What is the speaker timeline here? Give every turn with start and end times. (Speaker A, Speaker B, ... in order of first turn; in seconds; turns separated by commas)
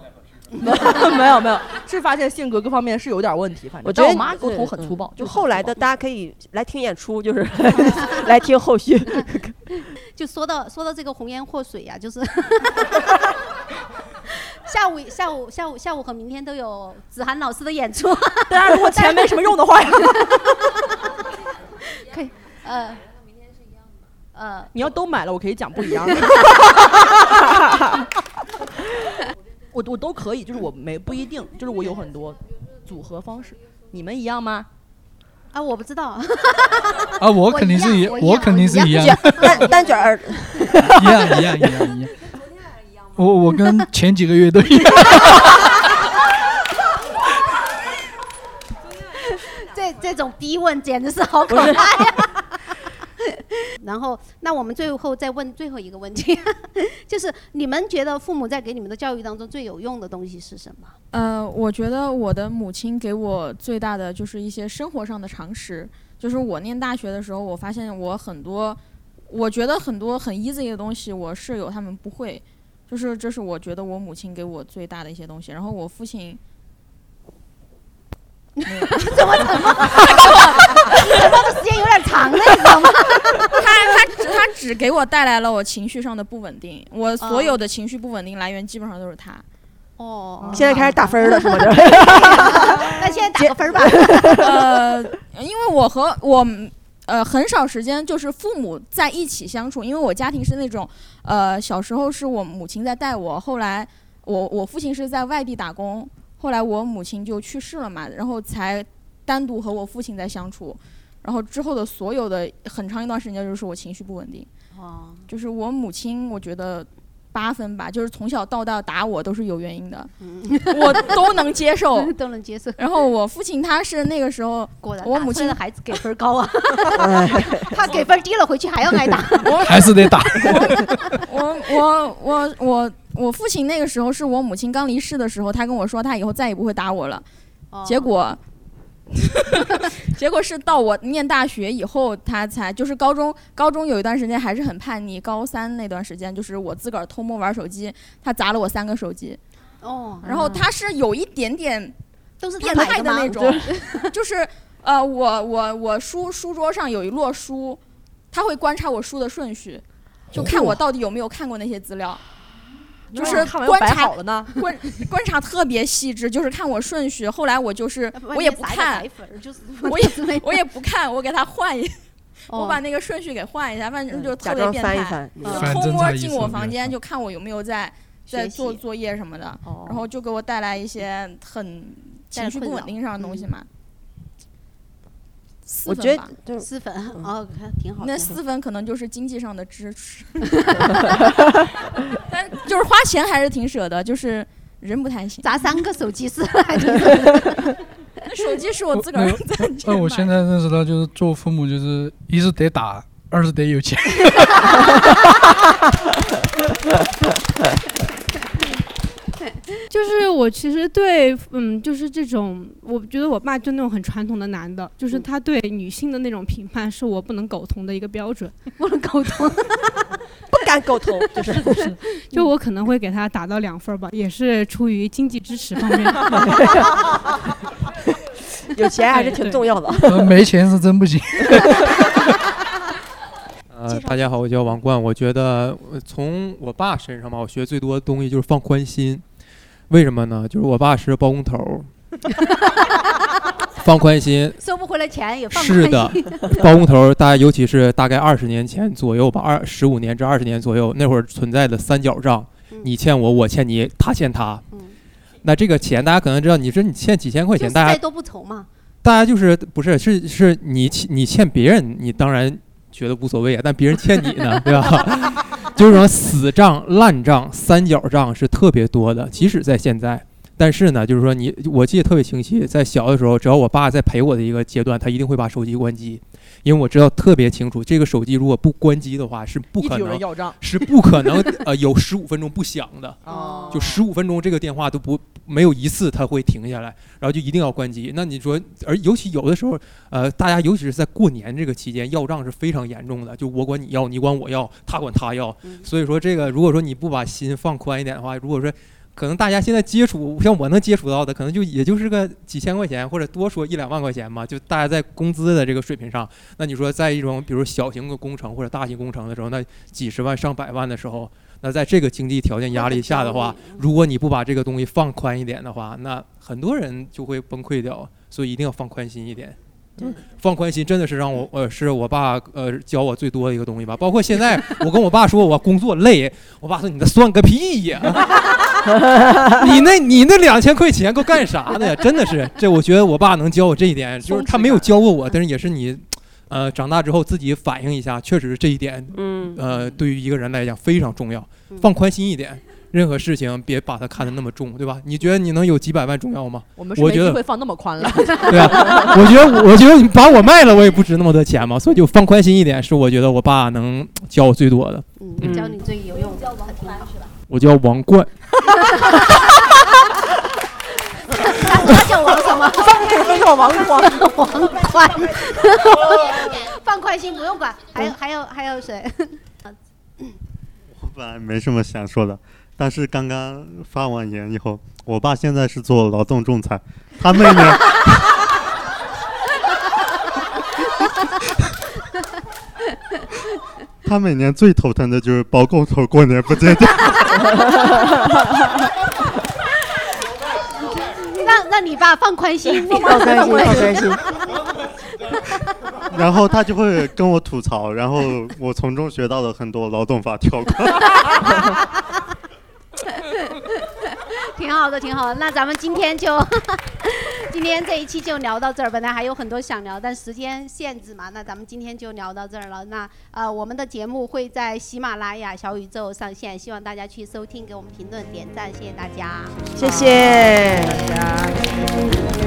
Speaker A: 0.6-5.7, Speaker B: 3.9-9.6, Speaker C: 10.1-13.1, Speaker C: 14.3-19.4, Speaker A: 18.5-20.2, Speaker C: 22.0-23.0, Speaker C: 24.3-24.7, Speaker A: 24.7-26.6, Speaker A: 27.2-27.8, Speaker A: 29.7-34.7, Speaker C: 35.5-40.0, Speaker D: 37.2-39.7, Speaker B: 38.9-41.7, Speaker D: 40.8-42.1, Speaker D: 43.1-45.8, Speaker C: 49.3-52.9, Speaker B: 51.5-51.9, Speaker C: 53.8-61.0, Speaker E: 61.1-76.4, Speaker C: 78.6-83.6, Speaker E: 78.7-79.1, Speaker E: 83.5-89.4, Speaker C: 87.2-87.6, Speaker C: 90.0-94.5, Speaker B: 90.5-94.6, Speaker E: 94.4-114.5, Speaker C: 114.7-115.3, Speaker E: 115.3-120.1, Speaker C: 120.2-122.8, Speaker E: 120.7-122.1, Speaker E: 122.8-125.6, Speaker C: 124.8-129.8, Speaker B: 126.9-127.9, Speaker E: 129.5-137.2, Speaker D: 129.6-131.2, Speaker C: 130.4-130.7, Speaker C: 137.7-138.1, Speaker E: 137.8-138.4, Speaker E: 139.3-149.4, Speaker C: 149.8-150.7, Speaker E: 150.2-151.9, Speaker C: 152.4-154.1, Speaker E: 152.6-162.2, Speaker A: 163.1-164.5, Speaker E: 163.1-169.1, Speaker C: 163.2-163.5, Speaker C: 168.1-170.6, Speaker E: 169.8-183.7, Speaker C: 172.5-172.8, Speaker B: 174.1-175.8, Speaker D: 175.5-176.9, Speaker B: 178.3-178.7, Speaker C: 178.3-178.8, Speaker B: 179.7-180.0, Speaker C: 182.3-183.3, Speaker E: 185.7-186.3, Speaker B: 185.9-187.3, Speaker C: 186.6-188.4, Speaker E: 188.0-191.1, Speaker E: 192.2-195.5, Speaker C: 195.4-197.7, Speaker E: 198.3-200.4, Speaker D: 199.0-205.1, Speaker F: 209.9-218.6, Speaker C: 218.8-219.9, Speaker B: 220.5-221.9, Speaker F: 222.3-226.5, Speaker B: 226.4-226.9, Speaker B: 228.7-230.4, Speaker D: 230.1-232.2, Speaker B: 231.4-231.8, Speaker G: 233.7-239.2, Speaker B: 233.9-234.2, Speaker G: 239.9-241.9, Speaker C: 242.4-242.9, Speaker G: 243.8-244.6, Speaker C: 244.6-246.9, Speaker G: 245.5-254.7, Speaker C: 254.7-255.0, Speaker G: 255.4-258.0, Speaker C: 257.6-258.7, Speaker G: 259.0-283.2, Speaker A: 279.8-280.6, Speaker A: 283.2-284.0, Speaker C: 283.3-283.9, Speaker G: 283.7-328.4, Speaker C: 312.7-313.9, Speaker G: 329.5-347.4, Speaker A: 334.2-334.9, Speaker B: 339.1-339.6, Speaker A: 339.6-340.0, Speaker A: 346.8-349.1, Speaker G: 348.3-355.6, Speaker C: 355.2-357.1, Speaker B: 355.4-355.7, Speaker G: 357.5-358.4, Speaker C: 358.9-359.3, Speaker C: 361.3-370.4, Speaker A: 363.4-364.0, Speaker H: 370.9-378.0, Speaker H: 384.1-387.6, Speaker C: 390.8-394.5, Speaker B: 392.9-394.3, Speaker H: 396.1-401.3, Speaker C: 403.1-421.3, Speaker B: 419.8-421.1